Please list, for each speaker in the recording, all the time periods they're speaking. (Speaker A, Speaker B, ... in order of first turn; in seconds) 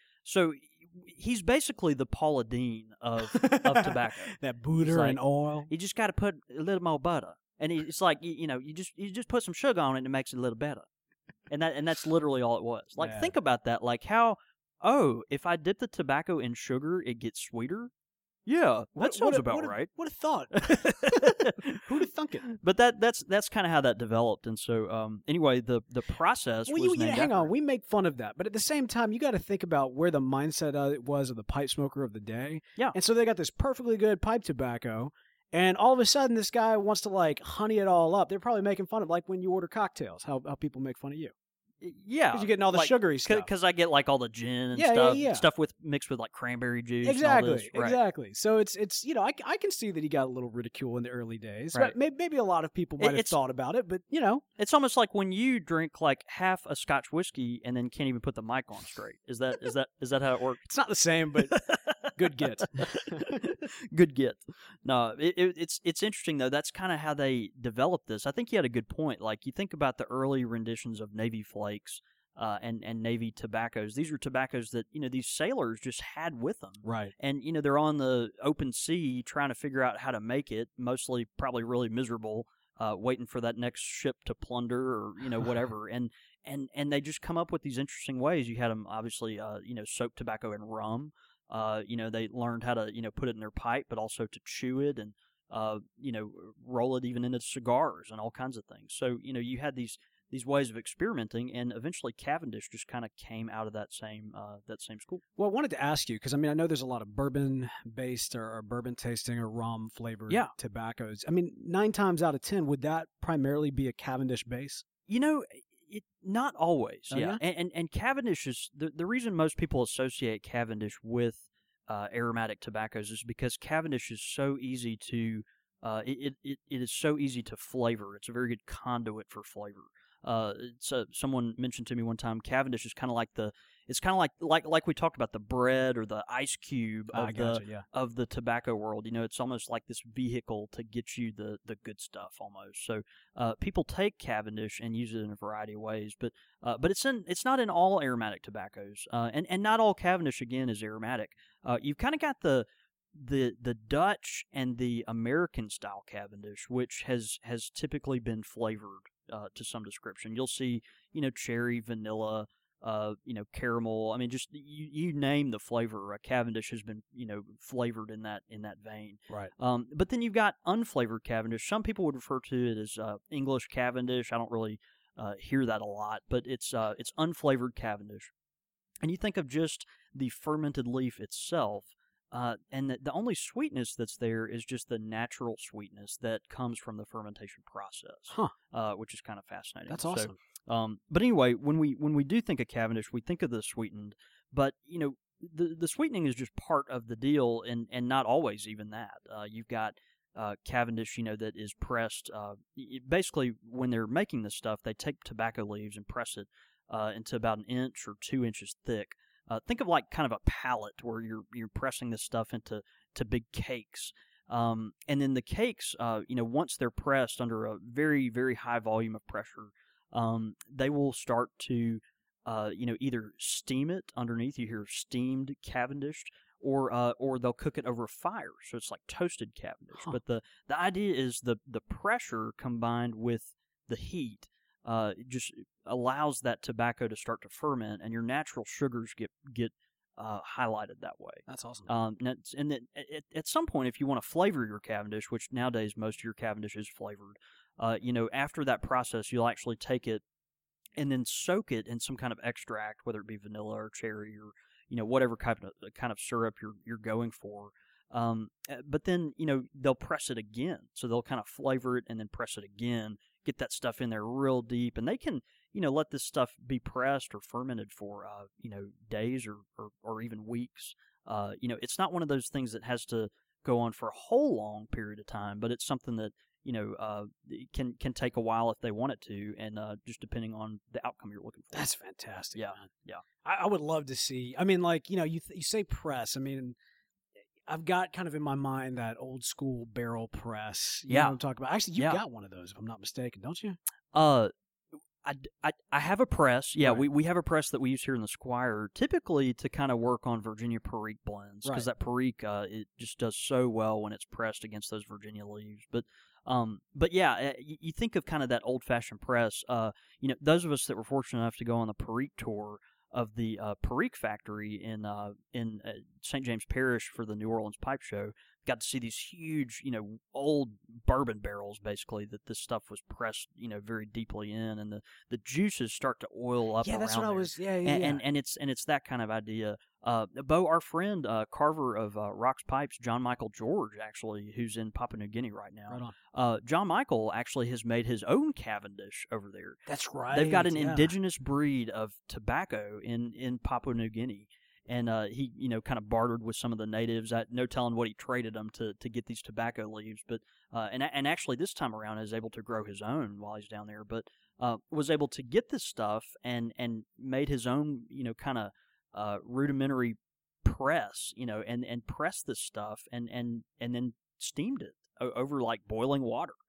Speaker A: 0.2-10.9, 11.5-17.9, 18.5-19.9, 20.6-21.8, 22.5-27.5, 41.8-48.0, 53.0-53.4, 54.6-60.6, 61.4-105.2, 110.3-110.5, 115.1-178.3, 179.0-250.2, 251.0-281.9, 282.5-283.2, 291.1-291.4, 292.0-292.2, 294.1-294.5, 295.2-339.8, 340.3-366.6
Speaker B: 3.2-5.7, 13.0-13.3, 19.0-22.5, 26.7-41.3, 42.3-43.5, 44.7-45.5, 47.0-54.5, 60.6-61.6, 62.1-63.4, 76.8-77.1, 105.4-114.8, 117.1-117.4, 137.1-137.9, 188.3-188.5, 189.9-190.4, 241.5-241.9, 281.7-282.9, 283.4-286.8, 287.7-293.8, 326.8-328.2, 335.9-336.2, 339.9-341.1